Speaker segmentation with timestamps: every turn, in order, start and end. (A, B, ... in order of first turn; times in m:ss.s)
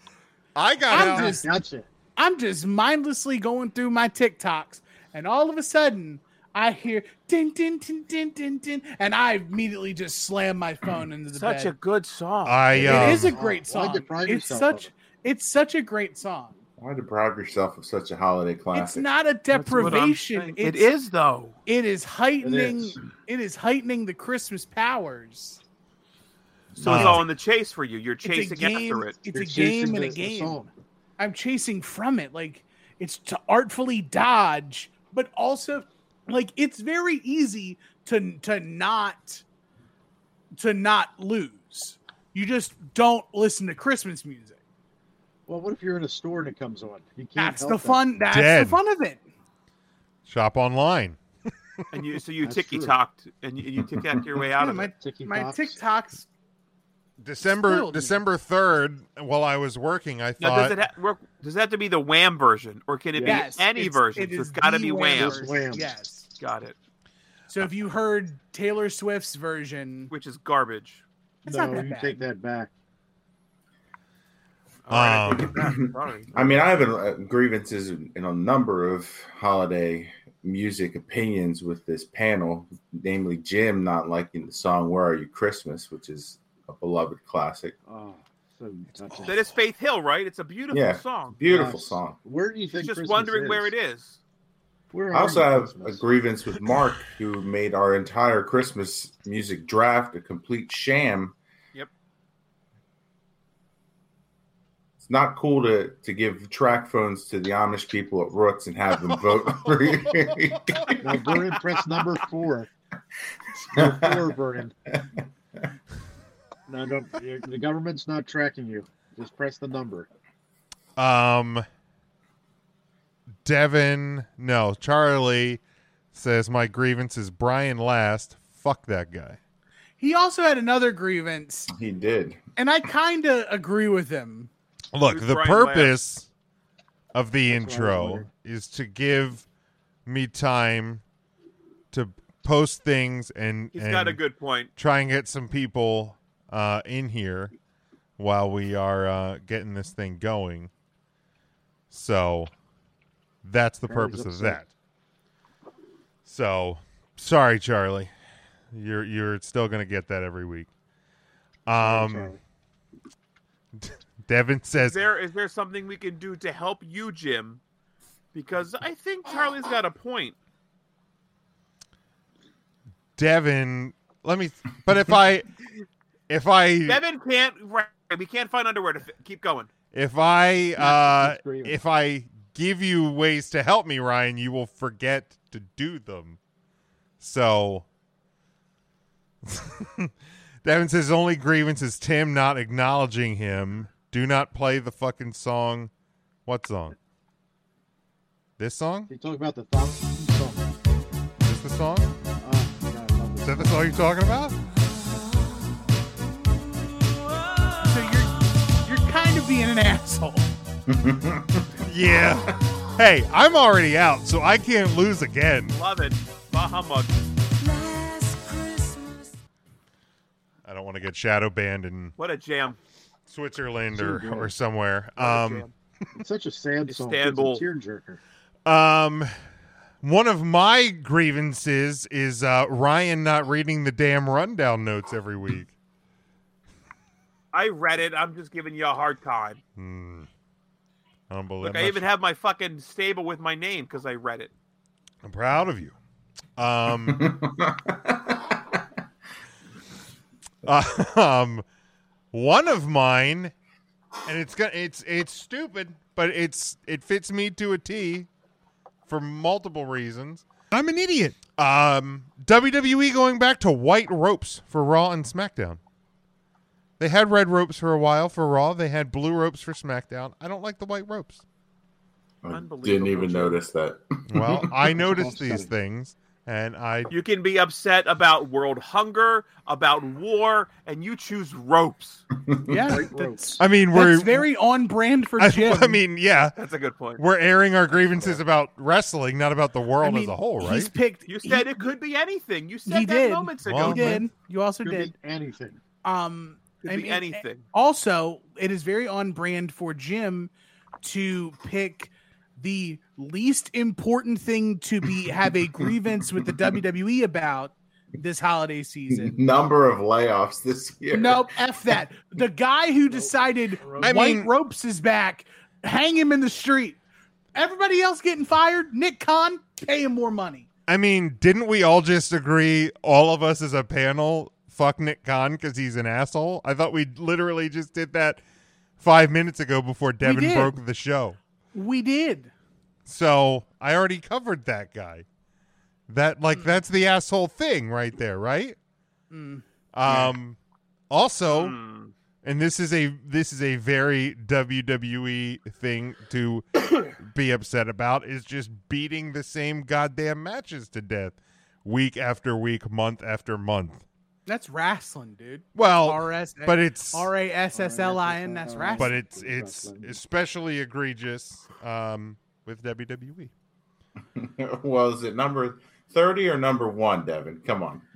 0:00.6-0:01.4 A
0:00.9-0:01.5 B
0:00.9-0:01.9 C
0:02.2-0:11.7 B
0:11.4-0:12.8 D
0:12.4-0:13.4 A
0:12.8-0:14.9 C
0:12.8-0:16.6 B
0:16.8-0:19.1 E
0:18.8-0:20.9 B
0:19.5-0:21.6 D
0:21.7-0:25.6 B
0:22.4-0:23.0 C
0:26.8-0:27.2 E
0:26.8-0:29.2 D
0:26.8-0:27.3 A
0:28.2-0:30.6 B
0:29.3-0:30.7 C
0:31.2-0:39.4 B
0:40.6-0:44.6 B
0:45.5-0:48.0 C
0:47.4-0:49.2 B
0:48.3-0:48.8 A
0:50.2-0:51.2 A
0:51.9-0:54.9 D
0:52.4-0:53.0 C
0:54.6-0:56.3 B
0:54.9-0:55.8 C
0:57.2-1:00.8 A
0:57.6-0:58.2 B
1:00.4-1:05.5 D
1:03.2-1:03.5 C
1:03.2-1:06.3 B
1:05.2-1:05.9 C
1:06.4-1:06.8 D
1:07.5-1:10.1 B
1:10.1-1:11.0 D
1:11.4-1:12.7 C
1:11.5-1:12.2 B
1:14.9-1:16.4 D
1:14.9-1:15.7 A
1:15.5-1:27.8 E
1:27.9-1:29.4 C
1:29.3-1:31.4 D
1:30.7-1:32.2 E
1:31.5-1:33.7 C
1:32.8-1:34.2 D
1:34.9-1:36.0 C
1:35.1-1:41.4 E
1:45.0-1:51.0 E
1:51.0-1:52.7 C
1:53.7-1:54.3 E
1:53.7-1:54.7 C
1:54.9-1:55.2 E
1:56.7-2:00.1 C
2:01.0-2:01.7 A
2:03.4-2:05.6 A
2:06.1-2:09.4 A
2:10.0-2:11.7 B
2:11.7-2:12.4 E
2:12.6-2:14.5 B
2:14.9-2:16.3 A
2:15.1-2:16.0 D
2:17.1-2:19.4 A
2:17.5-2:18.3 C
2:20.1-2:21.0 A
2:21.9-2:24.2 A
2:23.7-2:24.7 D
2:24.8-2:27.5 A
2:28.2-2:30.7 A
2:31.9-2:32.5 A
2:33.4-2:34.7 A
2:33.9-2:34.6 C
2:36.2-2:38.1 A
2:38.7-2:40.7 A
2:41.7-2:42.3 A
2:41.8-2:42.4 C
2:43.8-2:45.0 A
2:44.8-2:47.6 D
2:48.3-2:50.4 D
2:53.2-2:55.5 A
2:56.3-2:57.0 A
2:56.9-2:59.7 D
2:59.9-3:06.4 A
3:00.8-3:01.8 C
3:07.2-3:07.9 A
3:09.4-3:10.1 A
3:10.6-3:15.9 A
3:16.5-3:17.0 A
3:18.6-3:19.1 A
3:19.1-3:20.6 C
3:21.4-3:22.2 A
3:22.4-3:24.0 C
3:23.4-3:24.6 A
3:27.9-3:30.5 B
3:30.9-3:31.8 E
3:31.8-3:35.8 A
3:35.7-3:37.1 D
3:40.6-3:42.2 A
3:42.2-3:42.8 D
3:43.3-3:45.7 A
3:43.9-3:44.5 C
3:45.2-3:45.7 D
3:46.2-3:48.2 C
3:46.9-3:47.6 D
3:48.7-3:49.4 A
3:50.0-3:55.7 A
3:57.5-3:59.6 D
3:59.8-4:00.3 A
4:01.3-4:02.0 A
4:01.6-4:04.5 D
4:05.2-4:06.0 A
4:06.6-4:07.4 A
4:07.0-4:08.8 E
4:10.6-4:11.6 A
4:12.3-4:13.5 A
4:14.2-4:18.3 A
4:19.1-4:25.8 A
4:27.0-4:31.4 A
4:32.4-4:35.0 E
4:32.5-4:33.6 D
4:34.3-4:37.1 A
4:34.9-4:35.7 C
4:37.1-4:42.2 D
4:42.7-4:46.0 B
4:42.8-4:43.6 C
4:43.6-4:44.5 A
4:45.4-4:46.6 A
4:46.6-4:47.2 D
4:47.2-4:50.9 A
4:50.0-4:51.9 B
4:51.3-4:54.2 D
4:52.9-4:55.1 B
4:53.6-4:54.2 A
4:54.8-4:55.8 C
4:56.0-5:00.5 B
4:56.8-4:57.6 D
5:01.0-5:09.3 B
5:09.1-5:11.6 E
5:11.1-5:17.0 B
5:13.1-5:14.1 C
5:14.0-5:14.5 A
5:17.6-5:20.7 B
5:20.9-5:28.4 A
5:29.0-5:31.4 A
5:30.2-5:30.8 B
5:31.7-5:32.5 B
5:33.1-5:35.3 A
5:36.1-5:38.8 A
5:36.6-5:36.8 B
5:39.3-5:39.6 B
5:39.9-5:40.6 A
5:41.1-5:41.8 A
5:41.5-5:42.1 D
5:42.4-5:46.6 A
5:47.2-5:54.0 A
5:54.5-5:59.1 B
5:55.8-5:57.3 A
5:57.7-6:00.2 C
5:59.0-6:03.5 A
6:04.4-6:08.0 E